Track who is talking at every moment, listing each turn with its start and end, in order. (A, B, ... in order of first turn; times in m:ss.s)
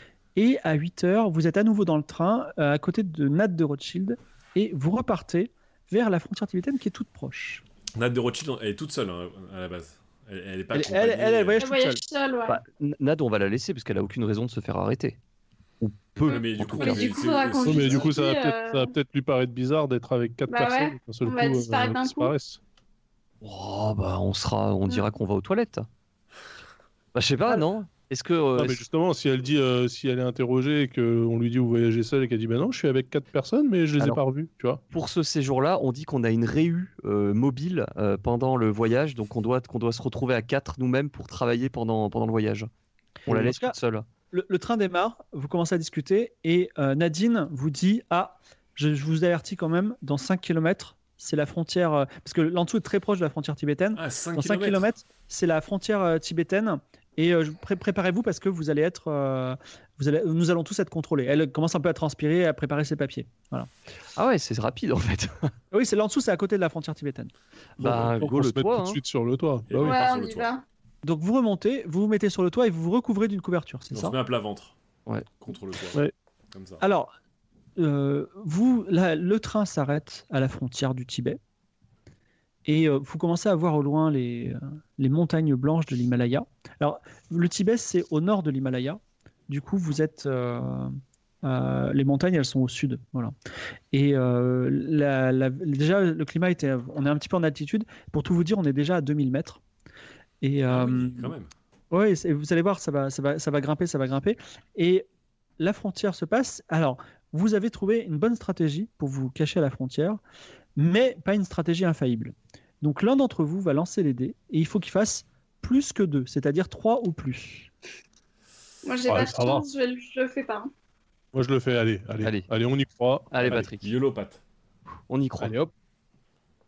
0:00.4-0:07.6 A
0:08.0-0:11.6 B
0:10.7-0:12.0 A
0:11.6-0:12.6 C
0:12.5-0:15.2 D
0:15.8-0:17.2 D
0:16.2-0:18.9 C
0:16.3-0:18.1 B
0:17.6-0:22.6 E
0:20.5-0:22.3 C
0:23.4-0:25.9 D
0:27.1-0:28.8 D
0:28.6-0:34.8 E
0:34.9-0:42.7 D
0:43.3-0:43.7 A
0:43.3-0:44.1 D
0:44.3-1:03.7 A
0:53.9-0:54.8 B
1:04.2-1:05.5 D
1:05.7-1:07.3 A
1:07.8-1:10.0 E
1:07.8-1:09.0 D
1:09.7-1:10.5 B
1:09.8-1:10.6 C
1:11.0-1:14.1 A
1:13.9-1:14.8 B
1:15.1-1:15.4 D
1:15.4-1:16.0 B
1:16.5-1:16.8 B
1:16.8-1:17.1 A
1:17.8-1:21.4 A
1:22.6-1:33.3 A
1:33.9-1:39.6 A
1:40.4-1:41.3 A
1:40.7-1:41.5 B
1:41.9-1:45.0 A
1:45.6-1:50.2 A
1:50.8-1:57.7 A
1:58.8-2:00.7 C
1:59.0-1:59.6 E
2:01.3-2:03.6 E
2:02.2-2:02.5 D
2:03.3-2:03.9 D
2:03.4-2:04.4 B
2:05.1-2:05.7 D
2:05.4-2:05.7 E